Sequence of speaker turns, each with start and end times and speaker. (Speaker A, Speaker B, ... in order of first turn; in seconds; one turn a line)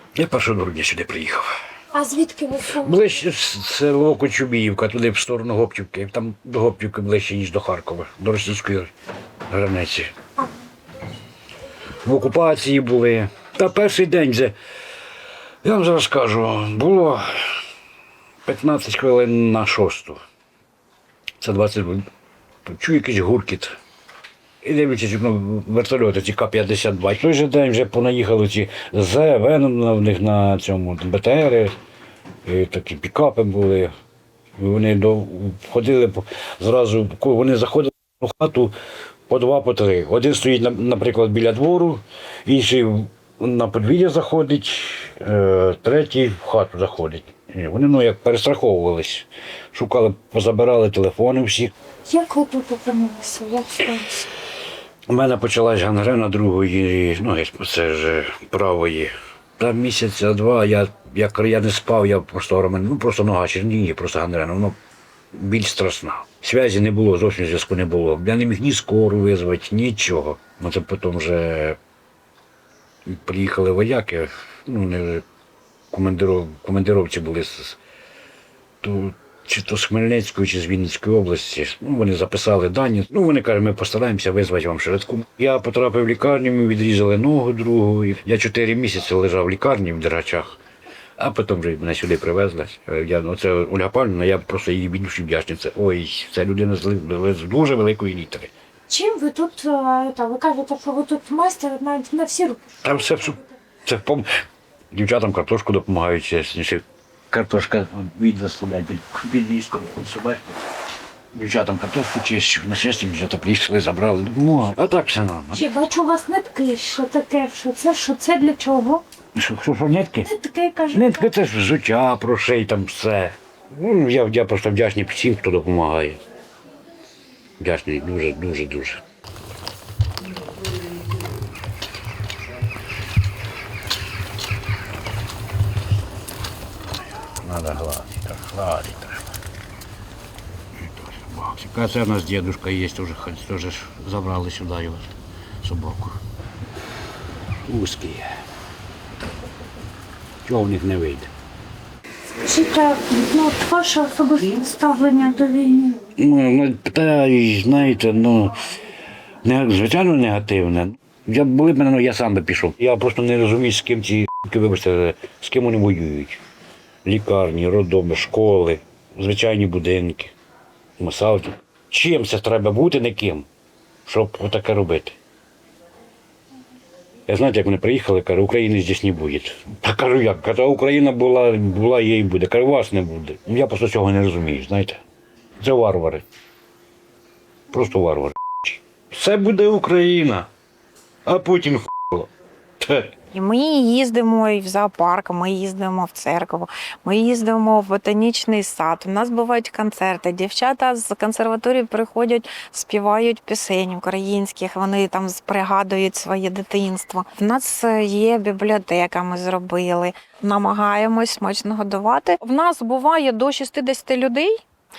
Speaker A: 0.1-1.4
Speaker B: 1.9-3.0
Speaker A: 2.8-8.9
Speaker A: 9.5-10.1
Speaker A: 12.0-14.5
Speaker A: 15.6-17.2
Speaker A: 18.4-20.2
Speaker A: 21.4-22.0
Speaker A: 22.7-23.7
Speaker A: 24.6-31.7
Speaker A: 32.5-33.9
Speaker A: 34.6-38.7
Speaker A: 39.3-51.7
Speaker B: 52.0-54.3
Speaker A: 55.1-64.8
Speaker A: 65.3-71.8
Speaker A: 73.0-75.2
Speaker A: 75.9-77.8
Speaker A: 78.8-90.6
Speaker A: 91.2-98.5
Speaker B: 98.9-102.6
Speaker A: 102.8-104.2
Speaker A: 104.9-110.6
Speaker A: 111.3-115.7
Speaker B: 115.5-119.0
Speaker A: 119.3-120.3
Speaker B: 120.2-121.3
Speaker A: 120.9-126.2
Speaker A: 127.6-129.0
Speaker A: 137.3-139.3
Speaker A: 140.8-145.1
Speaker A: 145.6-146.2
Speaker A: 147.7-148.2
Speaker A: 150.4-151.3
Speaker B: 152.4-156.0
Speaker A: 156.2-158.5
Speaker A: 159.4-166.4
Speaker A: 167.0-170.3
Speaker A: 171.0-173.5
Speaker A: 174.1-175.1
Speaker A: 177.3-185.0
Speaker A: 185.6-186.2
Speaker A: 187.7-190.5
Speaker A: 191.2-193.1
Speaker C: 193.3-214.6